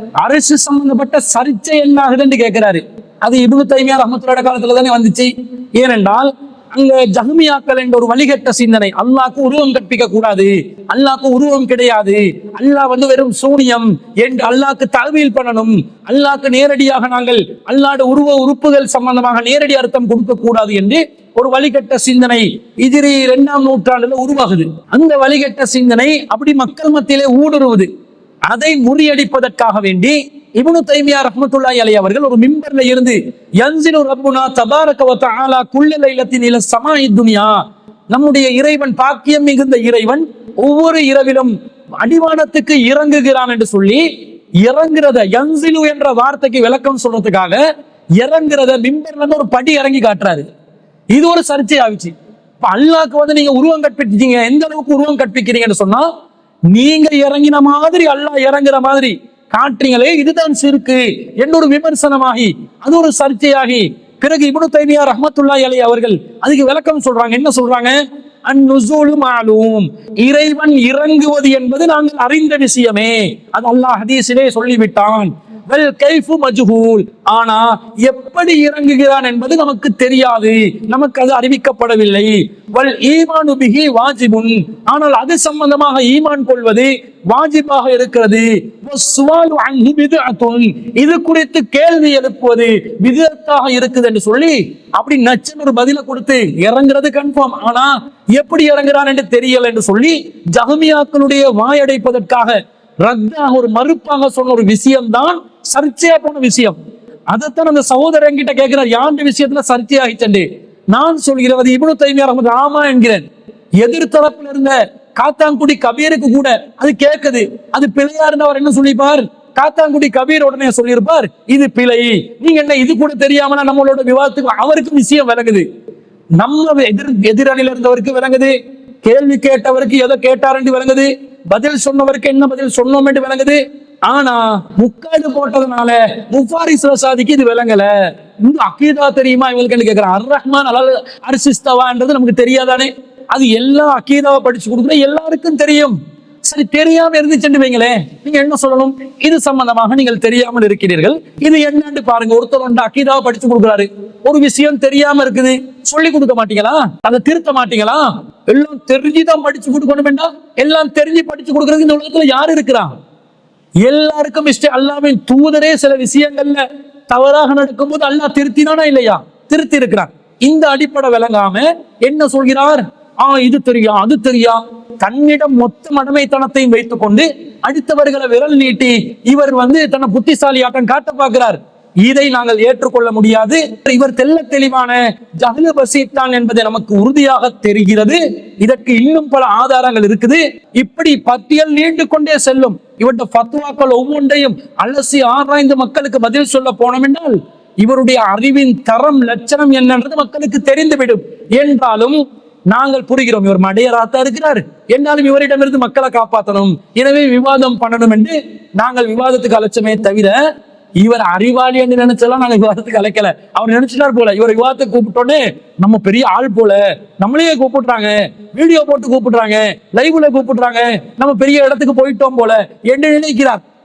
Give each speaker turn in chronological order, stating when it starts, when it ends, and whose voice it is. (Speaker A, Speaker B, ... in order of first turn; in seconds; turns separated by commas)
Speaker A: 0.2-27.9, Speaker A: 28.5-37.6, Speaker A: 38.1-44.0, Speaker A: 44.6-47.6, Speaker A: 48.2-50.5, Speaker A: 51.1-56.1, Speaker A: 56.7-106.8, Speaker A: 107.3-113.2, Speaker A: 113.8-125.6, Speaker A: 126.4-162.9, Speaker A: 163.8-210.4, Speaker A: 211.0-223.6